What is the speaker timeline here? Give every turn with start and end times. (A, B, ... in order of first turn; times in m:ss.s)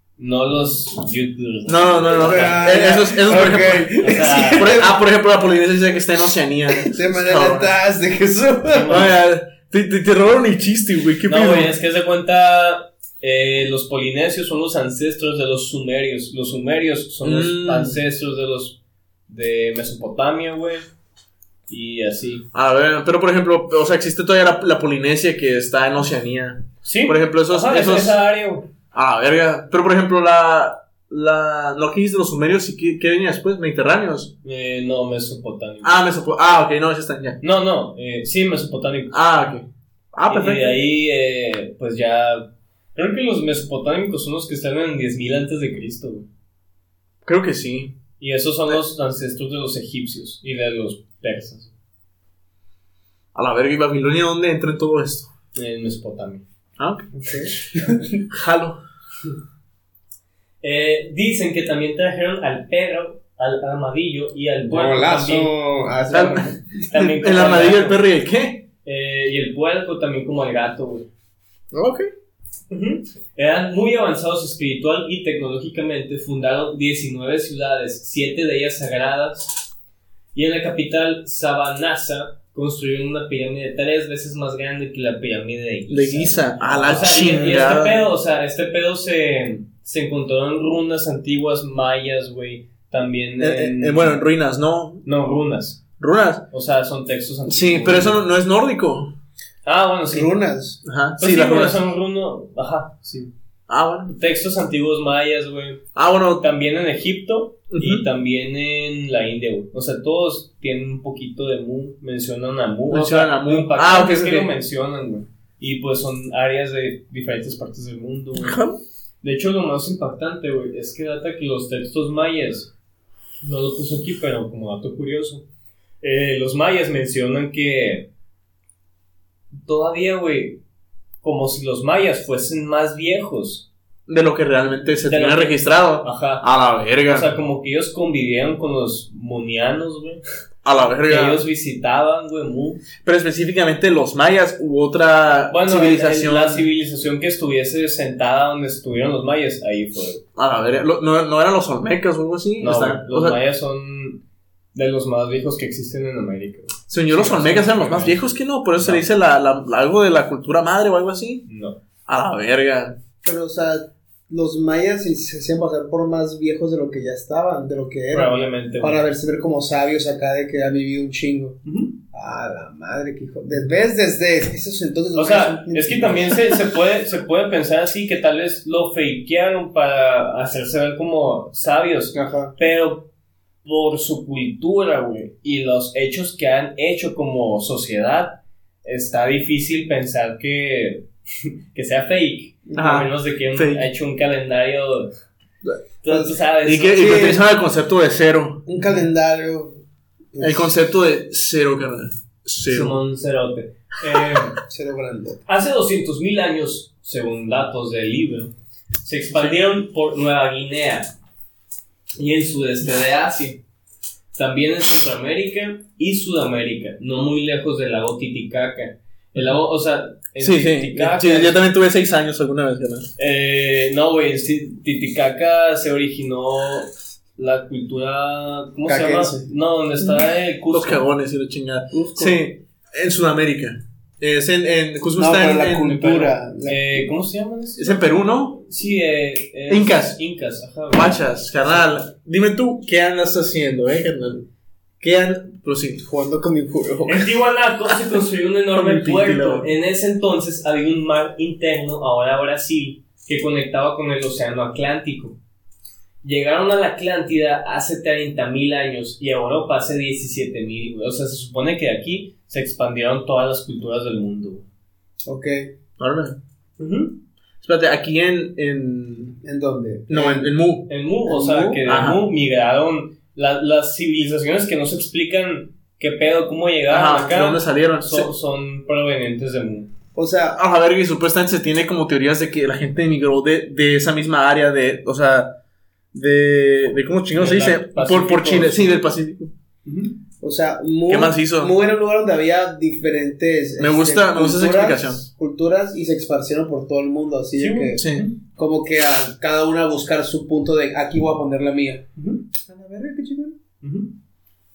0:00.2-0:02.8 A
0:01.7-0:07.8 B
0:02.1-0:05.0 C
0:04.0-0:04.8 A
0:06.8-0:09.1 C
0:08.7-0:09.1 A
0:08.9-0:11.7 B
0:11.3-0:20.9 A
0:17.2-0:18.0 B
0:21.7-0:22.4 A
0:22.5-0:28.2 B
0:26.8-0:28.7 A
0:28.9-0:34.3 B
0:34.4-0:36.0 A
0:35.8-0:37.4 B
0:37.4-0:39.2 A
0:39.1-0:40.8 B
0:40.3-0:46.3 A
0:47.2-0:48.0 B
0:48.2-0:51.7 A
0:53.4-0:55.3 B
0:55.6-0:56.4 A
0:56.8-0:57.1 B
0:57.2-0:58.2 C
0:58.3-0:58.8 B
1:00.6-1:05.5 A
1:04.7-1:06.7 C
1:06.1-1:08.6 B
1:06.1-1:08.0 A
1:08.8-1:11.1 A
1:11.7-1:12.1 B
1:12.7-1:19.6 A
1:20.3-1:34.2 A
1:25.9-1:28.1 B
1:33.4-1:35.0 B
1:35.0-1:35.8 A
1:36.0-1:36.5 B
1:36.5-1:38.2 A
1:37.5-1:39.1 B
1:39.6-1:40.3 A
1:40.1-1:40.8 C
1:40.8-1:41.8 B
1:41.2-1:43.3 A
1:43.7-1:44.2 B
1:44.1-1:45.8 A
1:46.0-1:46.5 B
1:46.4-1:58.6 A
1:47.7-1:48.1 B
1:52.9-1:54.5 B
1:58.4-1:58.8 B
1:59.2-2:02.7 A
2:03.4-2:05.4 A
2:06.0-2:08.1 A
2:09.5-2:10.6 A
2:11.2-2:13.7 A
2:14.1-2:17.3 B
2:15.0-2:16.5 A
2:17.0-2:20.2 A
2:20.6-2:21.4 B
2:21.1-2:22.8 A
2:23.0-2:26.7 B
2:25.5-2:30.2 A
2:30.4-2:33.4 B
2:32.6-2:34.2 A
2:34.7-2:39.1 A
2:36.9-2:41.5 B
2:41.5-2:41.8 A
2:42.1-2:43.0 B
2:43.2-2:56.6 C
2:48.1-2:49.0 A
2:51.6-2:52.0 A
2:55.2-3:03.1 A
3:02.1-3:02.5 C
3:03.6-3:15.1 A
3:12.7-3:13.0 C
3:12.7-3:13.9 B
3:16.0-3:17.2 A
3:16.1-3:16.4 C
3:16.6-3:18.7 B
3:16.9-3:17.4 C
3:18.7-3:19.8 C
3:20.3-3:20.7 C
3:20.4-3:23.0 B
3:22.7-3:24.6 A
3:24.6-3:25.4 C
3:25.5-3:28.5 A
3:29.0-3:31.1 A
3:32.2-3:33.6 A
3:34.4-3:41.6 A
3:40.4-3:43.1 B
3:43.2-3:51.1 A
3:48.9-3:49.5 C
3:50.7-3:56.1 B
3:51.9-3:52.4 C
3:55.2-3:57.1 C
3:55.8-4:01.8 A
3:57.8-3:58.6 B
3:59.7-4:00.2 B
4:00.9-4:04.5 B
4:05.0-4:06.0 B
4:06.0-4:07.3 C
4:07.1-4:15.4 A
4:08.7-4:09.7 B
4:16.2-4:24.6 A
4:25.3-4:25.7 C
4:26.0-4:26.4 B
4:26.8-4:27.2 A
4:27.6-4:29.4 B
4:29.4-4:30.5 C
4:30.1-4:30.9 B
4:30.9-4:39.9 A
4:31.3-4:31.8 C
4:31.9-4:32.2 B
4:36.9-4:38.3 B
4:40.2-4:40.6 C
4:40.6-4:45.6 B
4:46.1-4:49.5 B
4:47.3-4:49.1 A
4:49.8-4:50.2 A
4:50.4-5:03.6 C
4:51.1-4:51.8 B
4:53.8-4:55.2 B
4:57.6-4:58.4 A
4:58.0-4:58.3 B
5:03.8-5:04.1 A